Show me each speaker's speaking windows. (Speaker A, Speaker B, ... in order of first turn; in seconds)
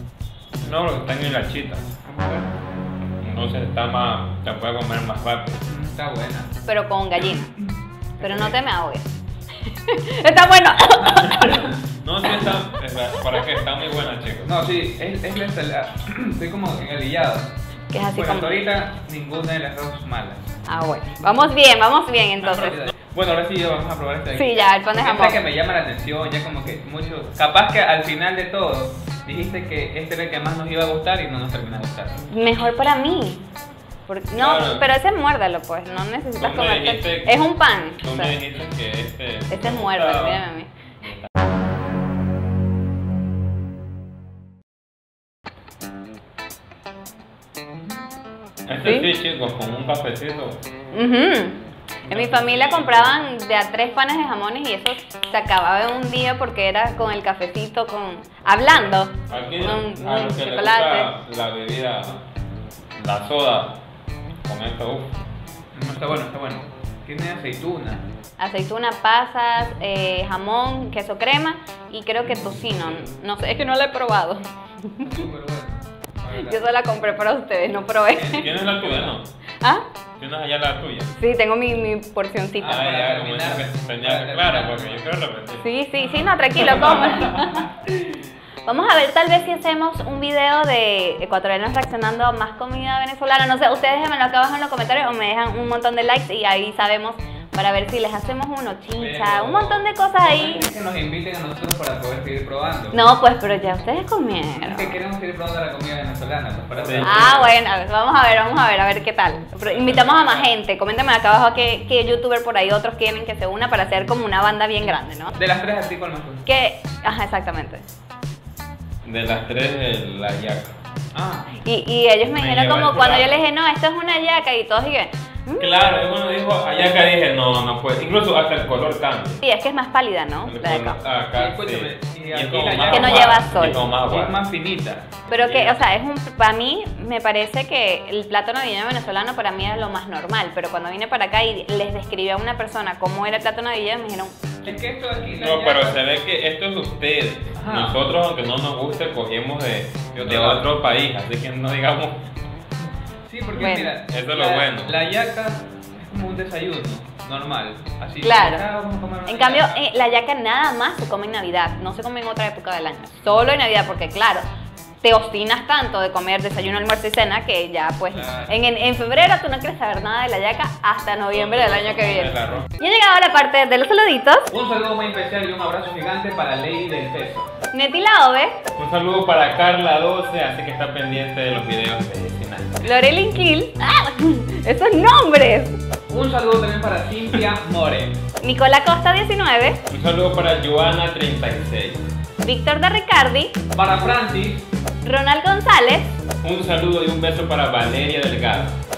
Speaker A: 0.6-1.9, 3.2-5.6, 11.2-14.5, 34.4-34.9, 36.4-37.4, 38.0-40.5, 41.0-41.3, 48.7-50.6, 52.0-53.2, 59.3-62.2, 63.0-63.8, 64.4-65.1, 78.2-79.3, 80.2-81.2, 82.6-85.7, 106.7-107.5, 119.0-120.8, 122.3-123.4, 125.6-129.4, 130.4-134.4, 135.3-135.8, 145.4-152.3, 154.1-155.0, 171.3-172.7, 178.7-182.8, 189.9-192.0, 196.4-198.8
Speaker B: 2.0-2.5, 5.7-6.5, 7.2-8.6, 11.0-11.7, 14.4-20.5, 22.4-32.2, 65.7-68.0, 75.0-76.7, 78.4-79.2, 82.6-85.1, 86.5-87.7, 98.9-103.1, 104.6-107.5, 109.7-110.5, 115.3-116.4, 121.1-121.5, 131.3-135.2, 144.6-146.0, 147.6-148.0, 150.1-150.7, 153.2-159.8, 168.1-168.6, 174.5-177.5, 186.1-188.2, 193.7-194.7
Speaker C: 6.7-7.5, 8.2-9.1, 9.6-11.6, 17.9-18.6, 20.7-22.8, 24.3-25.4, 32.3-33.4, 34.1-38.3, 39.5-40.7, 48.8-49.1, 50.9-61.1, 68.4-75.2, 76.3-78.5, 81.2-82.8, 85.6-100.7, 102.9-105.0, 107.0-115.3, 116.4-117.8, 121.6-125.7, 129.4-131.0, 132.9-133.8, 135.3-144.7, 153.5-153.9, 158.2-158.6, 159.2-164.4, 165.0-174.5, 177.7-178.6, 182.8-185.8, 188.4-189.8, 192.4-193.6, 195.0-196.1